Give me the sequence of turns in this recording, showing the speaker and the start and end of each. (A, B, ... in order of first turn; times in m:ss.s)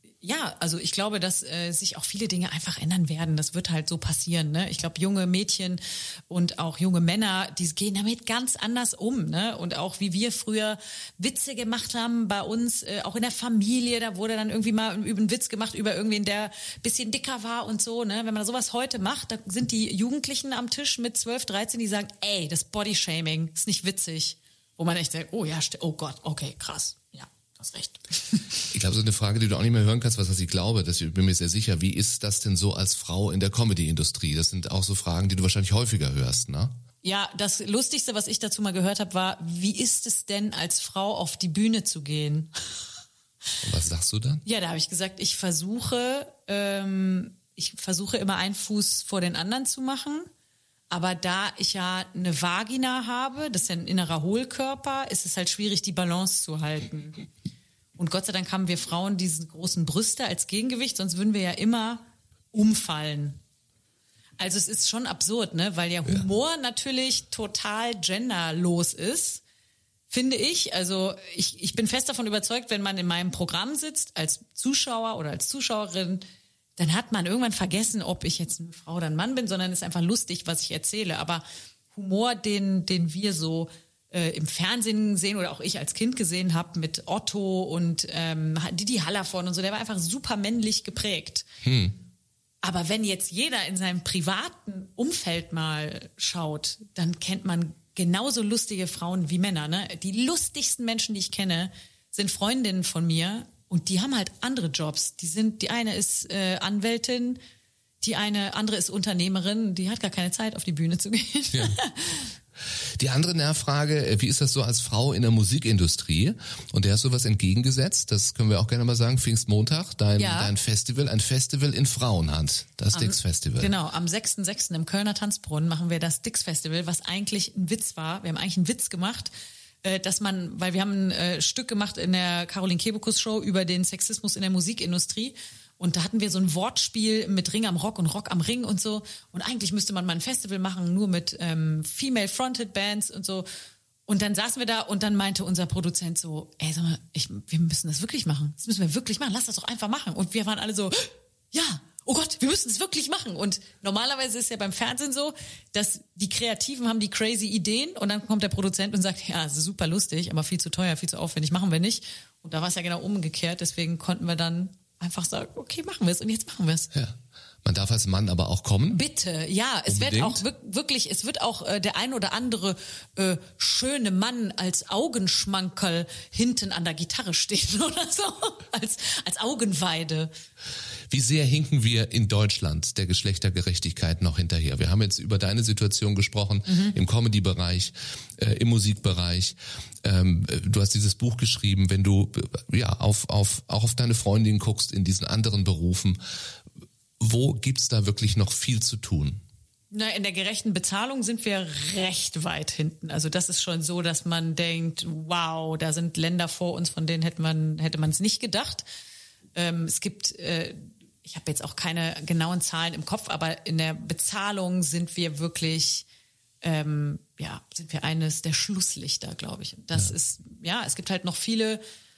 0:00.2-0:28.7 A
0:28.7-0:36.8 B
0:37.0-0:42.5 A
0:43.6-0:44.4 B
0:44.4-0:50.3 A
0:50.9-0:57.2 A
0:58.0-1:03.4 A
1:04.4-1:09.4 A
1:10.1-1:16.2 A
1:16.8-1:31.4 A
1:31.6-1:32.0 B
1:32.6-1:47.4 A
1:48.0-1:52.3 A
1:53.0-2:03.7 B
2:00.2-2:00.5 A
2:02.9-2:09.3 A
2:09.8-2:23.4 A
2:24.1-2:46.9 A
2:46.9-2:49.0 B
2:48.9-3:00.3 A
2:49.9-2:50.4 B
3:01.1-3:16.2 B
3:06.7-3:06.9 A
3:17.2-3:19.4 B
3:19.9-3:28.8 A
3:29.6-3:36.0 A
3:36.6-3:41.8 A